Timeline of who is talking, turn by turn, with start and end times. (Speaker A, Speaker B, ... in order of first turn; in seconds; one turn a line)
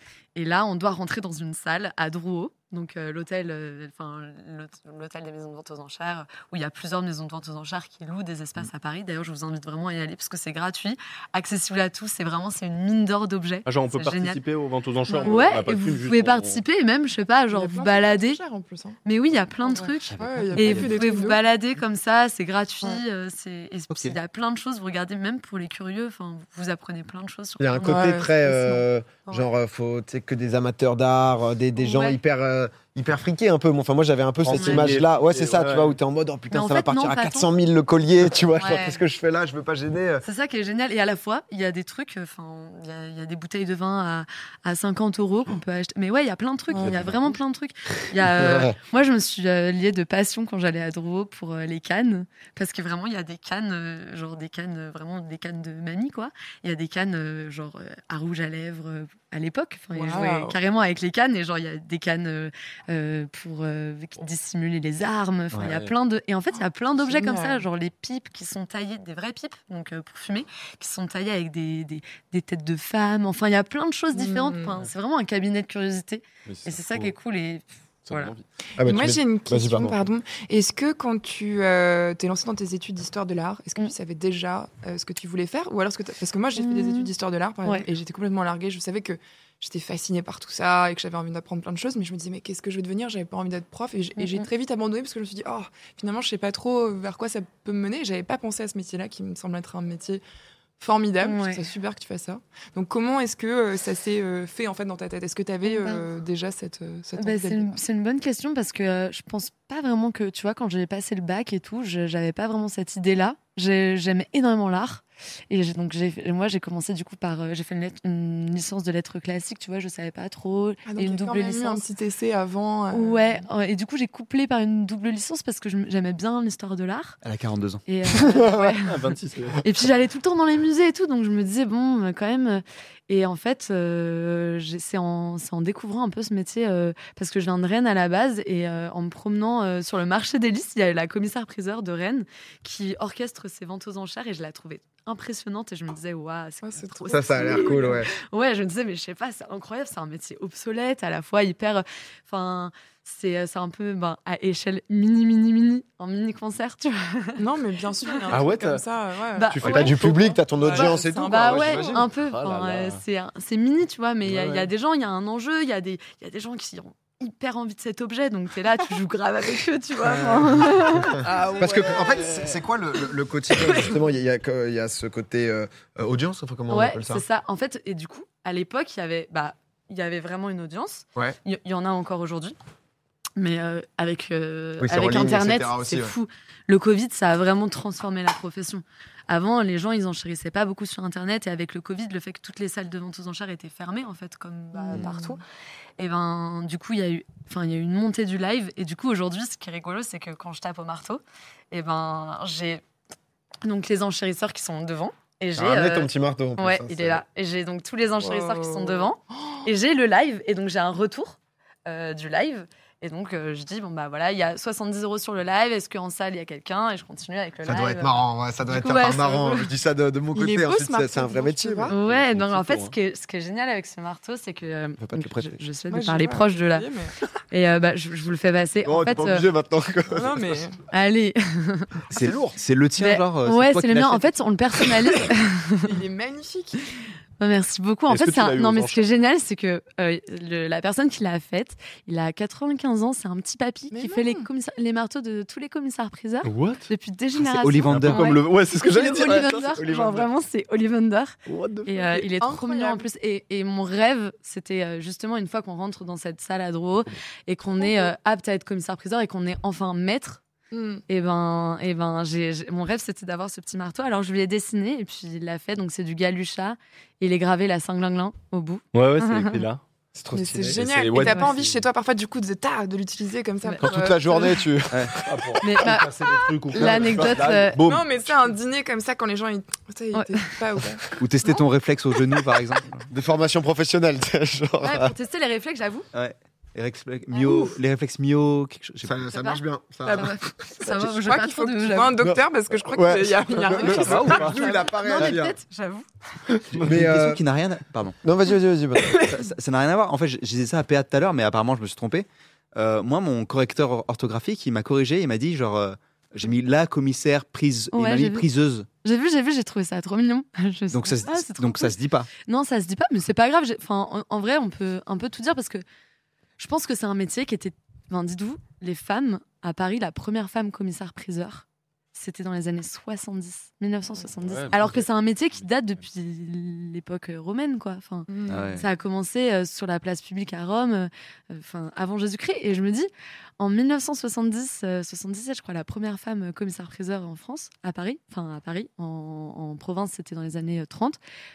Speaker A: 0.3-14.4
Speaker B: 13.7-16.6
Speaker C: 15.1-15.5
Speaker A: 15.1-18.4
Speaker C: 17.5-19.0
Speaker A: 19.0-28.3
Speaker C: 19.6-21.4
Speaker D: 20.0-21.0
Speaker D: 23.9-24.1
Speaker E: 27.6-40.2
Speaker C: 27.8-28.8
Speaker A: 31.8-32.2
Speaker B: 34.4-36.0
Speaker A: 34.5-34.9
Speaker A: 36.5-37.5
Speaker A: 38.5-39.0
Speaker A: 40.2-78.3
Speaker C: 46.7-47.0
Speaker B: 46.8-47.3
Speaker E: 48.2-48.8
Speaker C: 59.9-60.6
Speaker B: 65.5-65.9
Speaker C: 67.0-67.6
Speaker C: 74.1-74.8
Speaker B: 76.5-77.1
Speaker B: 78.1-78.4
Speaker E: 78.8-80.0
Speaker C: 78.8-100.2
Speaker A: 86.6-87.1
Speaker A: 94.2-94.5
Speaker C: 100.8-107.7
Speaker A: 101.2-101.7
Speaker A: 105.6-106.0
Speaker A: 107.2-121.9
Speaker C: 120.8-123.4
Speaker A: 122.9-127.2
Speaker D: 127.2-127.8
Speaker A: 127.8-129.1
Speaker E: 128.1-128.7
Speaker B: 128.8-129.6
Speaker A: 129.6-157.4
Speaker C: 146.6-148.0
Speaker E: 147.1-148.1
Speaker C: 157.4-162.1
Speaker A: 158.1-158.4
Speaker B: 158.3-158.8
Speaker A: 159.3-160.0
Speaker B: 159.5-160.1
Speaker E: 159.6-162.0
Speaker A: 160.6-172.4
Speaker B: 162.2-163.0
Speaker B: 164.3-164.7
Speaker E: 171.0-177.2
Speaker B: 171.2-171.6
Speaker C: 171.2-171.7
Speaker A: 173.5-173.9
Speaker A: 176.7-182.6
Speaker A: 183.3-195.4
Speaker E: 184.8-186.2
Speaker C: 194.7-195.4
Speaker A: 196.0-202.8
Speaker A: 203.6-219.7
Speaker E: 205.6-207.2
Speaker C: 208.2-209.6
Speaker E: 217.7-221.9
Speaker C: 220.3-222.0
Speaker A: 221.9-226.9
Speaker B: 222.0-222.9
Speaker E: 225.0-225.6
Speaker C: 225.9-227.1
Speaker A: 227.5-229.5
Speaker E: 228.8-230.6
Speaker C: 230.1-230.8
Speaker A: 230.9-232.0
Speaker D: 232.1-234.3
Speaker E: 232.1-232.3
Speaker A: 233.0-236.0
Speaker C: 235.8-236.9
Speaker A: 237.4-260.4
Speaker B: 238.1-239.1
Speaker C: 243.9-244.5
Speaker B: 246.4-246.9
Speaker D: 247.4-248.4
Speaker B: 247.9-250.3
Speaker B: 251.5-252.2
Speaker C: 252.0-253.1
Speaker C: 257.8-258.1
Speaker C: 260.7-261.0
Speaker A: 261.1-269.6
Speaker B: 268.9-269.8
Speaker E: 270.1-270.8
Speaker C: 270.3-274.6
Speaker B: 270.7-271.8
Speaker A: 271.1-271.5
Speaker E: 273.8-275.5
Speaker D: 274.9-275.2
Speaker B: 275.1-278.3
Speaker A: 275.6-277.8
Speaker D: 276.8-277.2
Speaker C: 277.8-281.2
Speaker A: 280.1-280.5
Speaker D: 281.2-283.1
Speaker E: 283.1-285.1
Speaker A: 284.8-286.1
Speaker D: 286.1-289.2
Speaker A: 287.3-287.8
Speaker E: 289.0-290.3
Speaker A: 289.3-292.2
Speaker C: 290.0-294.9
Speaker E: 292.2-295.6
Speaker A: 293.7-296.1
Speaker B: 293.8-294.6
Speaker B: 296.7-297.0
Speaker E: 296.7-297.4
Speaker D: 296.8-298.2
Speaker E: 298.2-299.3
Speaker D: 299.2-308.9
Speaker A: 307.9-308.5
Speaker A: 309.0-315.8
Speaker D: 310.9-312.3
Speaker A: 316.6-341.2
Speaker B: 324.4-325.1
Speaker C: 328.3-328.8
Speaker D: 328.5-328.9